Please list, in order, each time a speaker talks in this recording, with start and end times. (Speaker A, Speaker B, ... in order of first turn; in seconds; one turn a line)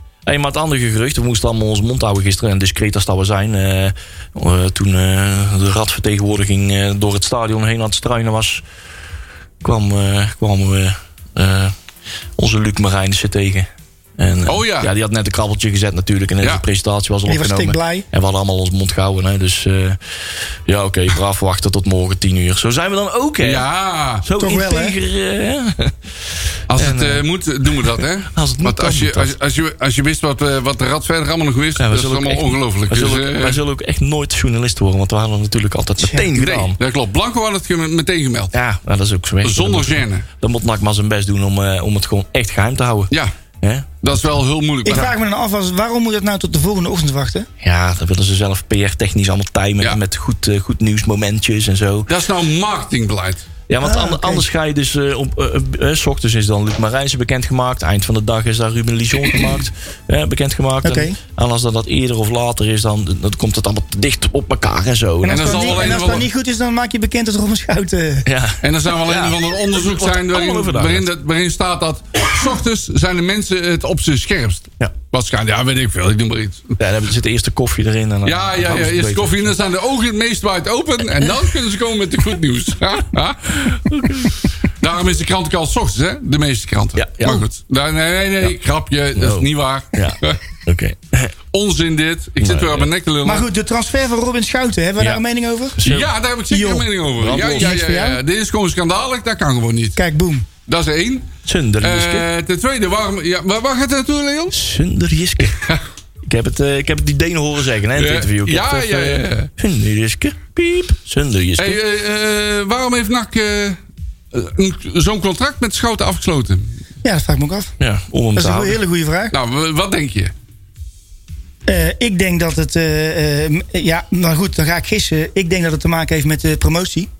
Speaker A: 0.2-8.6
Speaker A: 9.6-11.8
Speaker A: 12.4-20.0
Speaker B: 14.4-14.9
Speaker C: 17.3-18.0
Speaker A: 20.6-23.6
Speaker B: 23.4-24.2
Speaker A: 24.2-26.0
Speaker C: 24.4-25.0
Speaker B: 26.7-33.6
Speaker A: 26.7-29.3
Speaker A: 31.8-36.8
Speaker C: 36.0-36.3
Speaker B: 36.4-38.5
Speaker A: 38.5-44.4
Speaker B: 39.4-40.3
Speaker B: 44.0-45.1
Speaker C: 44.8-47.5
Speaker A: 47.6-52.1
Speaker B: 52.1-53.5
Speaker A: 53.7-66.2
Speaker C: 53.8-54.5
Speaker C: 60.8-61.2
Speaker C: 65.2-68.3
Speaker B: 65.3-66.3
Speaker A: 68.2-71.1
Speaker B: 68.6-76.8
Speaker A: 76.8-79.6
Speaker B: 78.2-83.9
Speaker A: 83.5-84.5
Speaker B: 84.8-90.4
Speaker A: 86.9-87.4
Speaker A: 89.2-91.3
Speaker B: 91.5-93.5
Speaker A: 92.4-92.9
Speaker C: 93.2-95.8
Speaker A: 95.8-96.1
Speaker B: 95.8-100.0
Speaker C: 96.5-98.2
Speaker A: 97.2-97.8
Speaker C: 100.0-100.5
Speaker B: 100.7-104.5
Speaker A: 101.5-102.3
Speaker A: 104.5-105.7
Speaker A: 106.3-111.8
Speaker B: 108.0-109.5
Speaker B: 111.6-113.8
Speaker B: 114.3-116.7
Speaker C: 117.0-117.7
Speaker A: 117.8-118.8
Speaker C: 118.3-119.3
Speaker B: 119.3-120.3
Speaker C: 121.7-127.1